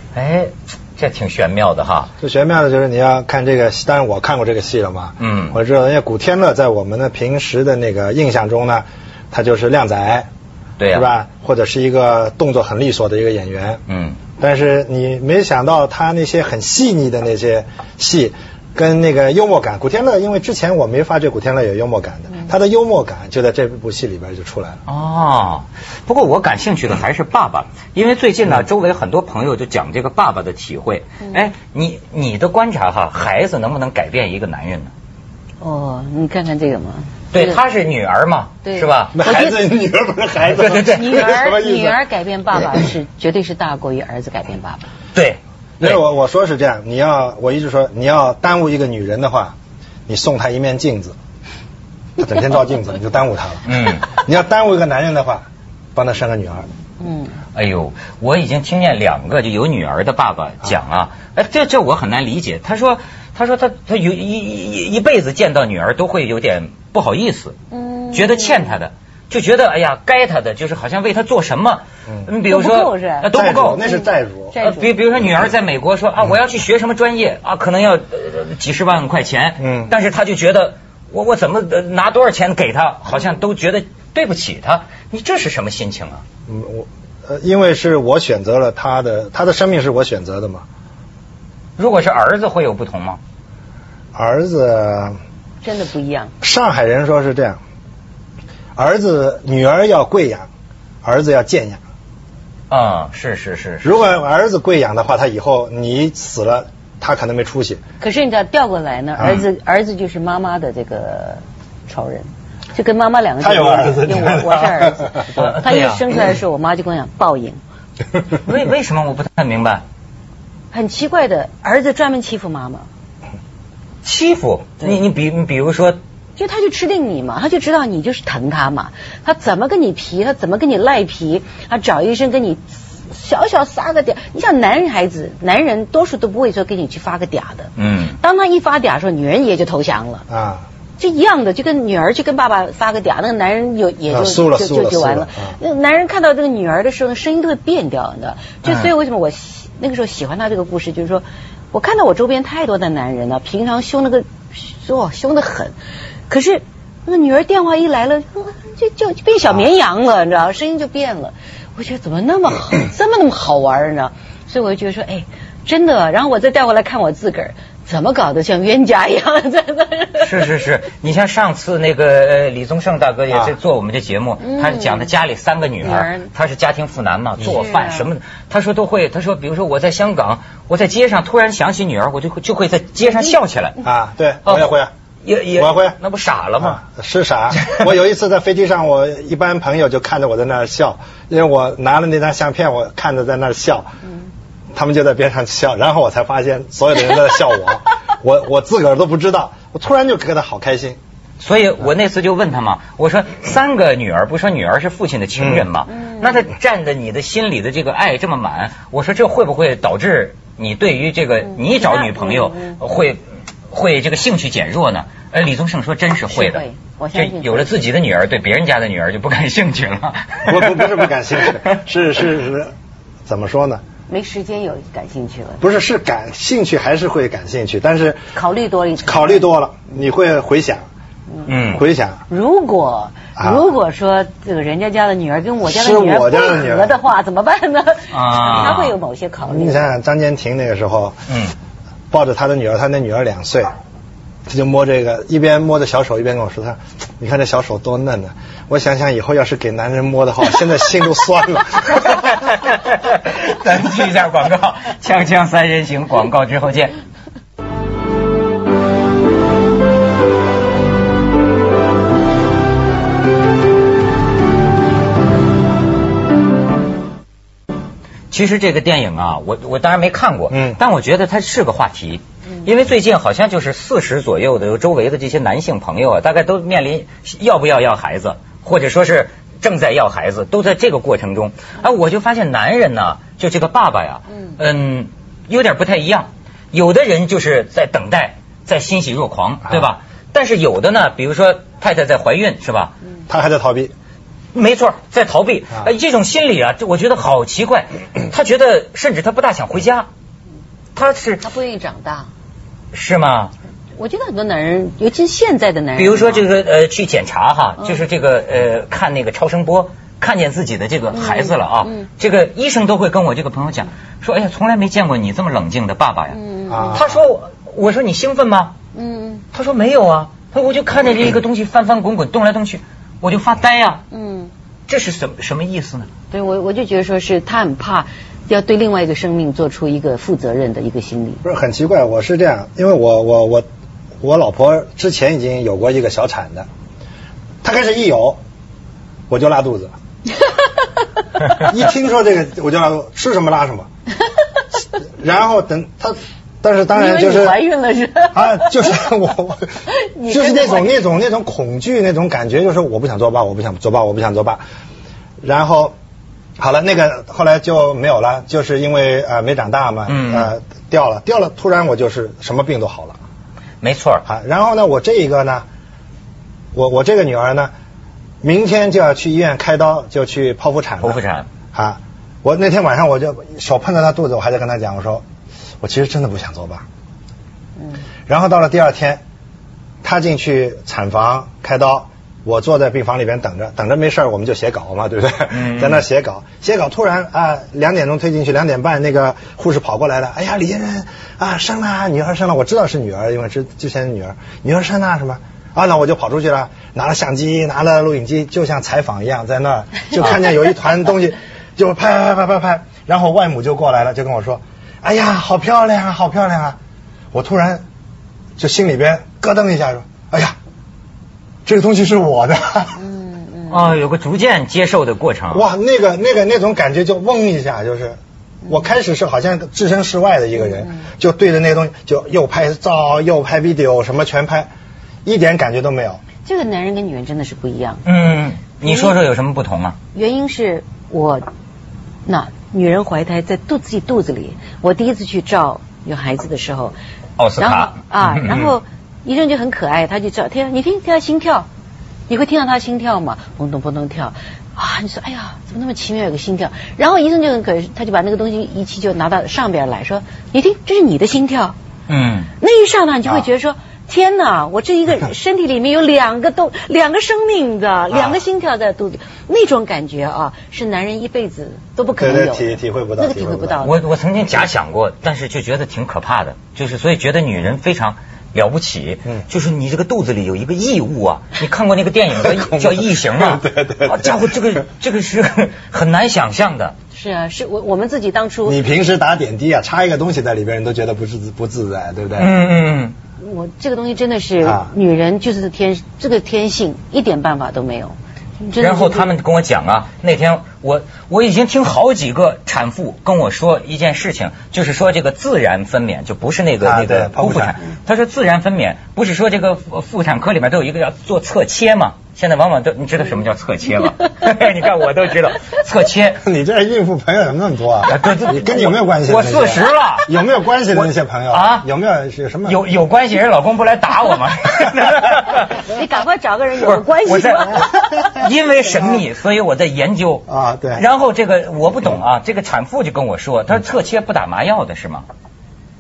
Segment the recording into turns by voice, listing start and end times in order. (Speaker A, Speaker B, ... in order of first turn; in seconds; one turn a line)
Speaker A: 0.1-2.1
Speaker B: 2.2-10.3
Speaker A: 5.2-5.6
Speaker A: 10.8-11.1
Speaker B: 10.9-13.8
Speaker A: 13.9-14.2
Speaker B: 14.4-24.8
Speaker A: 24.9-34.9
Speaker C: 35.6-37.6
Speaker A: 37.3-39.5
Speaker C: 38.6-39.5
Speaker B: 39.1-42.0
Speaker A: 40.5-41.2
Speaker C: 40.8-44.9
Speaker A: 45.1-46.0
Speaker B: 45.8-49.6
Speaker B: 50.1-51.2
Speaker B: 52.2-56.7
Speaker A: 53.7-54.1
Speaker C: 57.0-57.3
Speaker A: 57.5-67.6
Speaker C: 67.7-68.7
Speaker A: 68.1-73.9
Speaker C: 72.5-74.9
Speaker B: 73.3-74.5
Speaker A: 74.6-86.2
Speaker B: 79.6-79.9
Speaker B: 86.5-90.7
Speaker A: 91.8-93.2
Speaker B: 94.2-95.2
Speaker C: 95.6-96.3
Speaker B: 96.4-97.6
Speaker B: 98.8-100.5
Speaker B: 101.0-101.8
Speaker A: 102.7-103.9
Speaker B: 103.8-107.8
Speaker C: 108.0-117.6
Speaker A: 109.2-109.5
Speaker B: 113.4-115.2
Speaker A: 115.3-116.0
Speaker A: 118.4-119.8
Speaker C: 120.7-122.9
Speaker A: 124.0-126.0
Speaker C: 126.4-140.3
Speaker A: 137.8-138.2
Speaker B: 140.3-140.7
Speaker C: 141.0-155.8
Speaker B: 144.1-145.6
Speaker C: 156.3-170.3
Speaker A: 170.2-183.8
Speaker C: 174.4-175.1
Speaker C: 175.8-176.3
Speaker C: 177.4-178.1
Speaker B: 183.8-184.9
Speaker A: 184.4-186.8
Speaker B: 185.6-185.9
Speaker B: 186.6-193.9
Speaker B: 194.7-201.0
Speaker A: 201.4-220.9
Speaker C: 206.0-206.4
Speaker C: 211.6-212.8
Speaker C: 216.3-217.8
Speaker B: 220.5-222.7
Speaker B: 223.3-223.8
Speaker C: 224.1-225.6
Speaker B: 225.6-228.2
Speaker C: 228.3-229.4
Speaker B: 229.0-230.9
Speaker C: 231.4-231.8
Speaker A: 231.5-231.8
Speaker B: 231.7-232.2
Speaker C: 232.3-239.8
Speaker B: 235.6-237.0
Speaker A: 238.1-238.9
Speaker B: 239.5-241.2
Speaker A: 241.3-241.5
Speaker B: 242.1-243.8
Speaker B: 244.5-252.2
Speaker A: 252.1-257.0
Speaker A: 268.3-292.9
Speaker B: 270.5-270.8
Speaker B: 293.3-293.9
Speaker A: 294.5-300.1
Speaker A: 300.9-301.4
Speaker C: 301.4-302.3
Speaker A: 302.9-303.5
Speaker C: 304.0-306.5
Speaker A: 306.0-316.4
Speaker C: 311.1-312.1
Speaker C: 316.3-317.0
Speaker B: 316.7-317.2
Speaker A: 316.9-318.8
Speaker C: 318.9-319.4
Speaker A: 319.5-324.0
Speaker C: 324.1-324.5
Speaker A: 324.9-326.1
Speaker C: 326.3-331.4
Speaker B: 331.4-333.7
Speaker B: 334.2-336.7
Speaker B: 337.6-338.4
Speaker B: 339.3-339.9
Speaker B: 341.6-343.9
Speaker B: 345.2-347.6
Speaker C: 346.9-348.9
Speaker B: 348.3-349.8
Speaker C: 349.9-351.0
Speaker B: 350.3-354.6
Speaker B: 355.4-355.9
Speaker B: 356.6-363.2
Speaker A: 360.1-360.5
Speaker A: 363.8-364.2
Speaker B: 364.2-365.7
Speaker B: 366.7-367.7
Speaker B: 368.4-371.2
Speaker A: 371.0-371.5
Speaker B: 371.7-375.2
Speaker B: 375.8-376.9
Speaker C: 377.8-378.0
Speaker B: 378.3-379.2
Speaker B: 380.0-406.8
Speaker A: 385.5-386.0
Speaker B: 407.3-407.9
Speaker B: 408.6-410.6
Speaker B: 411.6-413.0
Speaker C: 413.1-413.7
Speaker A: 413.7-415.6
Speaker B: 415.5-424.7
Speaker B: 425.2-426.2
Speaker C: 426.4-428.0
Speaker A: 428.1-430.0
Speaker C: 428.9-429.1
Speaker C: 430.1-431.5
Speaker C: 432.3-436.9
Speaker A: 437.4-438.7
Speaker C: 437.6-441.7
Speaker C: 442.3-451.8
Speaker A: 452.1-452.5
Speaker C: 452.6-463.9
Speaker B: 462.2-463.9
Speaker A: 463.8-476.9
Speaker B: 472.4-474.5
Speaker C: 477.1-478.8
Speaker B: 478.7-482.6
Speaker A: 482.4-483.2
Speaker C: 483.4-489.3
Speaker B: 484.6-484.9
Speaker A: 488.8-506.4
Speaker B: 496.8-497.8
Speaker B: 506.4-512.8
Speaker A: 508.1-510.3
Speaker A: 510.9-511.9
Speaker A: 512.7-515.8
Speaker C: 515.8-518.5
Speaker A: 516.8-525.3
Speaker B: 520.5-521.0